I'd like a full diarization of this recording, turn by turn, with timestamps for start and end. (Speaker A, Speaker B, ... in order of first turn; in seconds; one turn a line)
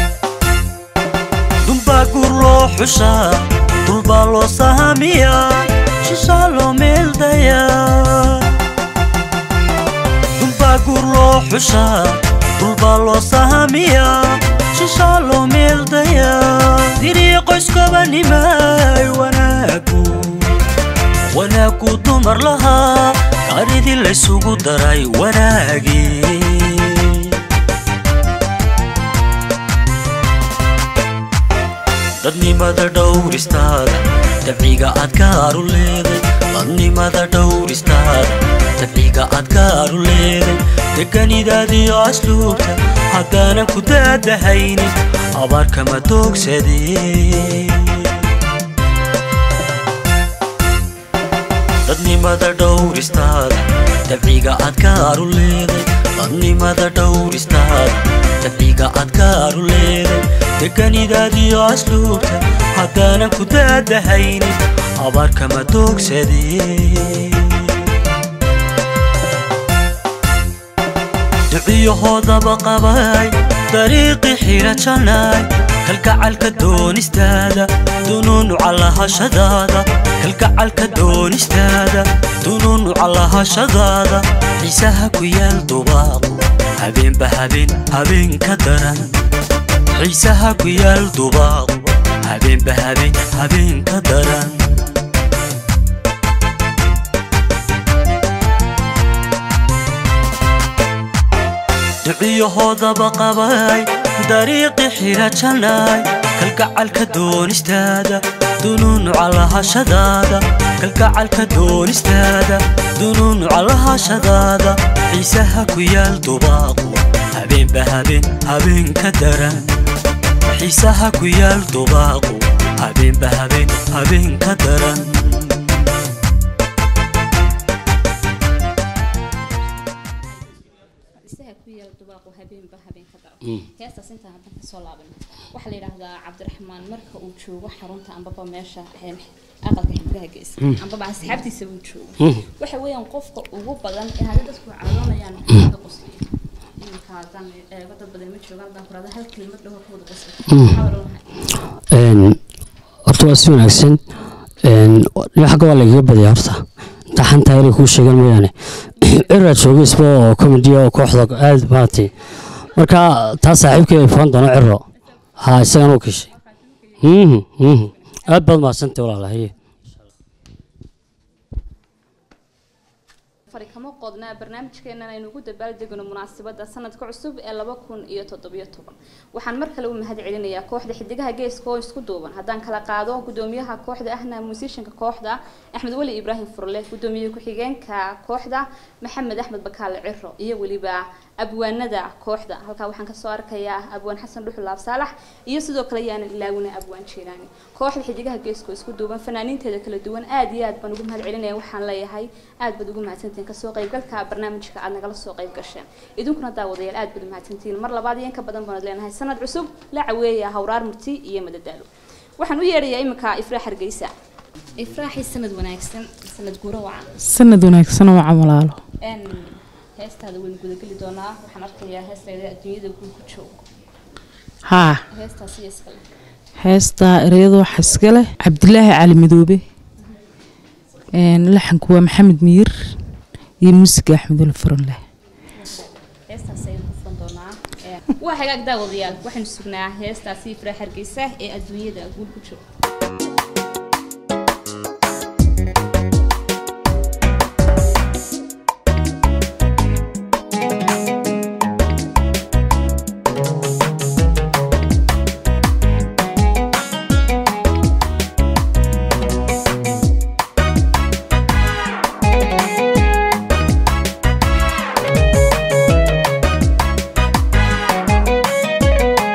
Speaker A: 1.6-8.6
Speaker A: 10.4-20.4
Speaker A: 21.3-27.3
Speaker A: 32.2-48.1
Speaker A: 51.9-67.7
Speaker A: 71.5-89.1
Speaker A: 89.9-94.7
Speaker A: 102.0-119.7
Speaker A: 120.5-125.6
Speaker B: 130.0-151.3
Speaker C: 150.5-150.8
Speaker C: 151.9-152.4
Speaker C: 153.1-154.0
Speaker C: 154.6-162.1
Speaker C: 162.8-164.8
Speaker C: 165.4-166.3
Speaker B: 166.2-167.0
Speaker C: 167.0-169.5
Speaker B: 173.5-211.9
Speaker B: 212.4-214.1
Speaker B: 214.8-217.1
Speaker D: 217.2-218.8
Speaker B: 219.0-223.6
Speaker D: 224.7-225.0
Speaker B: 225.1-226.0
Speaker D: 226.6-229.6
Speaker D: 231.2-232.7
Speaker D: 233.6-235.0
Speaker B: 235.6-242.6